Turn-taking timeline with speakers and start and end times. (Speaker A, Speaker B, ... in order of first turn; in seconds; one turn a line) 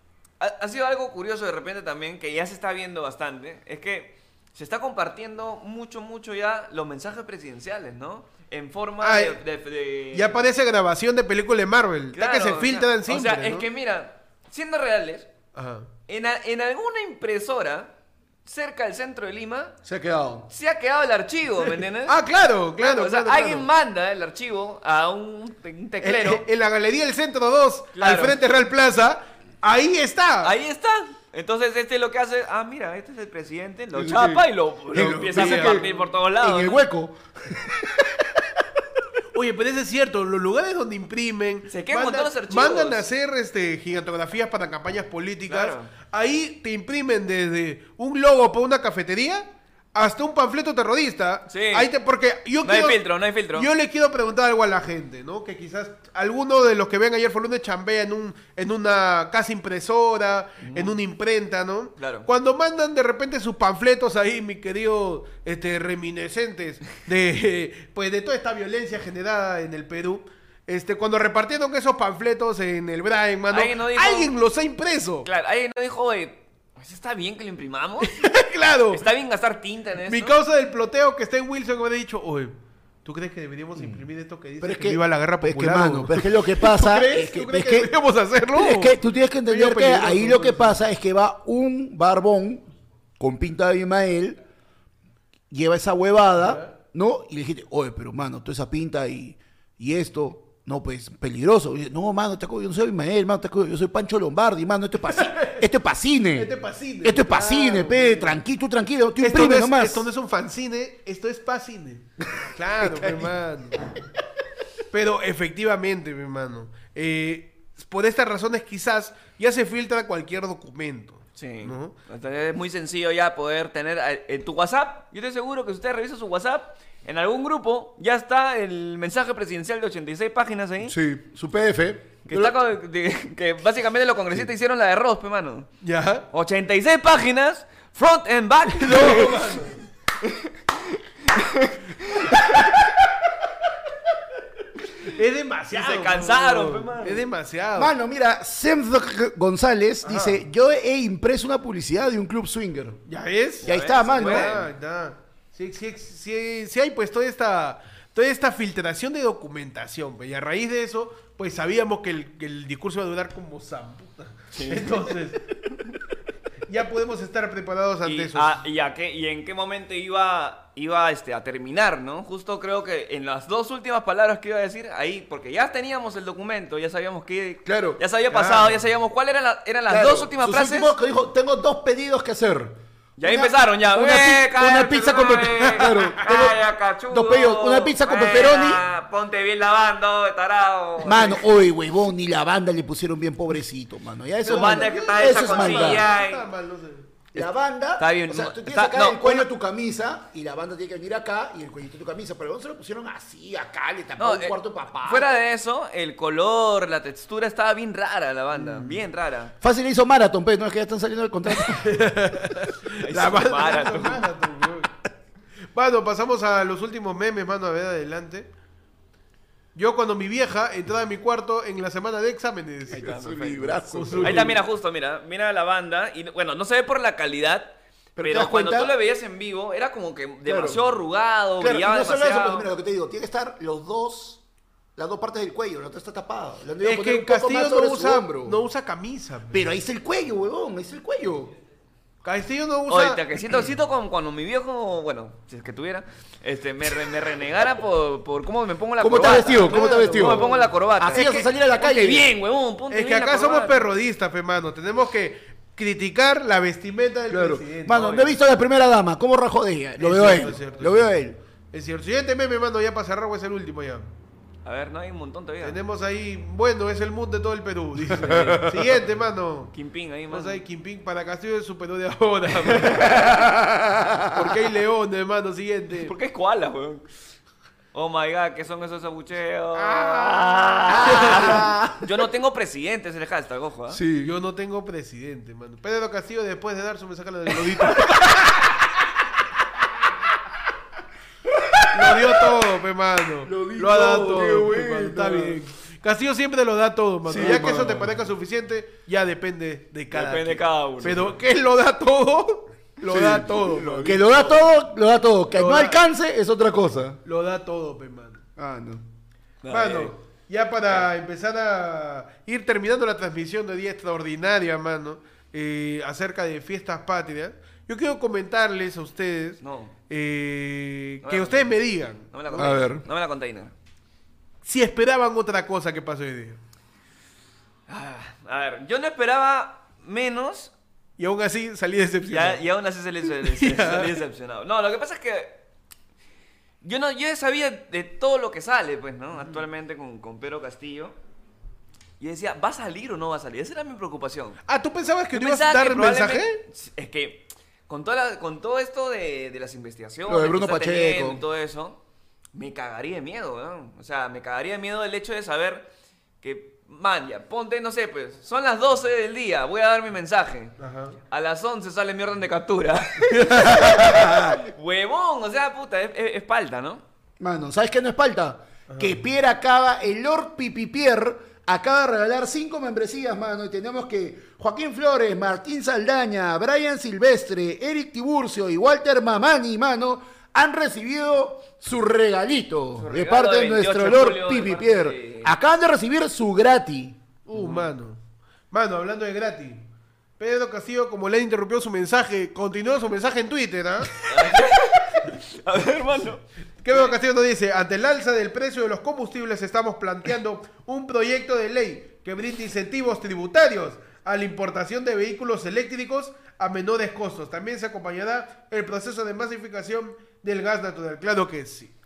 Speaker A: 0.4-10.3
Speaker B: 9.0-9.4
Speaker B: 10.1-13.7
Speaker A: 12.1-15.3
Speaker B: 15.5-15.9
Speaker A: 16.1-17.9
Speaker A: 18.4-19.8
Speaker C: 19.8-20.5
Speaker A: 20.5-22.1
Speaker B: 22.1-23.7
Speaker A: 22.8-26.4
Speaker B: 26.0-30.5
Speaker A: 27.9-28.4
Speaker A: 30.4-36.8
Speaker C: 33.9-35.9
Speaker B: 34.9-36.0
Speaker C: 36.4-38.6
Speaker B: 39.3-75.3
Speaker A: 41.7-43.0
Speaker A: 45.5-45.9
Speaker A: 51.5-51.9
Speaker A: 52.6-53.7
Speaker A: 60.6-60.9
Speaker A: 62.0-62.3
Speaker A: 73.5-74.3
Speaker A: 75.2-78.2
Speaker B: 78.0-79.0
Speaker A: 78.9-80.3
Speaker B: 80.0-90.8
Speaker C: 83.8-84.0
Speaker C: 84.6-87.9
Speaker C: 88.5-92.7
Speaker C: 93.2-94.4
Speaker C: 95.5-106.5
Speaker B: 96.4-96.7
Speaker B: 105.1-105.6
Speaker B: 106.3-108.4
Speaker C: 107.0-110.1
Speaker B: 109.2-113.8
Speaker C: 112.8-113.3
Speaker B: 114.9-121.9
Speaker A: 121.4-130.9
Speaker C: 130.8-132.6
Speaker A: 132.3-135.7
Speaker B: 135.8-136.3
Speaker A: 136.3-139.5
Speaker B: 138.8-139.8
Speaker A: 140.2-142.6
Speaker B: 145.0-147.9
Speaker A: 145.7-147.2
Speaker C: 147.8-153.0
Speaker B: 150.0-150.4
Speaker B: 153.1-165.4
Speaker C: 153.6-154.6
Speaker A: 153.6-154.7
Speaker A: 164.5-164.9
Speaker B: 166.7-168.6
Speaker A: 168.0-180.9
Speaker C: 177.6-178.0
Speaker B: 178.3-178.8
Speaker C: 179.9-188.8
Speaker A: 183.2-191.4
Speaker B: 185.8-186.1
Speaker C: 191.0-196.1
Speaker A: 194.4-196.4
Speaker B: 194.4-197.1
Speaker C: 197.3-205.3
Speaker A: 197.3-199.5
Speaker A: 204.2-209.5
Speaker C: 209.6-212.0
Speaker B: 211.7-215.0
Speaker A: 213.0-214.2
Speaker B: 215.7-218.5
Speaker B: 219.7-223.1
Speaker C: 222.9-224.6
Speaker A: 222.9-232.7
Speaker B: 223.9-224.6
Speaker C: 228.2-228.9
Speaker C: 230.4-230.8
Speaker C: 231.6-234.4
Speaker C: 234.9-238.6
Speaker B: 236.8-239.7
Speaker C: 239.5-241.5
Speaker B: 242.2-243.2
Speaker A: 242.9-253.8
Speaker C: 249.0-252.3
Speaker B: 249.2-251.4
Speaker B: 252.9-258.1
Speaker C: 257.3-261.4
Speaker A: 257.9-258.3
Speaker B: 260.0-264.1
Speaker A: 264.6-265.8
Speaker B: 265.6-269.7
Speaker A: 268.2-268.7
Speaker C: 268.3-268.7
Speaker A: 269.7-270.6
Speaker B: 270.3-273.5
Speaker C: 273.1-274.6
Speaker B: 274.3-276.1
Speaker A: 276.0-277.1
Speaker A: 277.9-284.0
Speaker B: 279.8-281.6
Speaker C: 280.9-282.0
Speaker C: 283.9-284.3
Speaker B: 284.2-288.8
Speaker C: 291.5-292.4
Speaker B: 291.9-304.7
Speaker C: 293.4-295.6
Speaker C: 297.2-298.2
Speaker A: 300.1-301.3
Speaker C: 303.0-307.2
Speaker B: 305.5-306.0
Speaker B: 307.2-308.4
Speaker C: 308.6-309.0
Speaker A: 309.6-310.1
Speaker B: 309.7-322.8
Speaker A: 319.6-319.9
Speaker A: 321.2-323.7
Speaker C: 322.5-323.0
Speaker B: 324.6-326.6
Speaker A: 327.9-330.7
Speaker B: 331.2-332.6
Speaker A: 332.2-335.6
Speaker B: 333.4-334.2
Speaker A: 336.8-341.2
Speaker A: 342.2-344.6
Speaker B: 344.7-346.6
Speaker A: 345.3-352.0
Speaker C: 350.3-351.4
Speaker A: 352.5-355.9
Speaker A: 356.4-360.7
Speaker B: 360.8-361.2
Speaker A: 361.3-367.0
Speaker B: 363.2-364.4
Speaker C: 367.4-387.2
Speaker B: 368.9-369.2
Speaker A: 383.0-385.5
Speaker B: 387.4-388.2
Speaker A: 387.5-387.9
Speaker B: 388.7-389.8
Speaker B: 390.4-394.7
Speaker A: 394.2-397.1
Speaker B: 396.8-411.9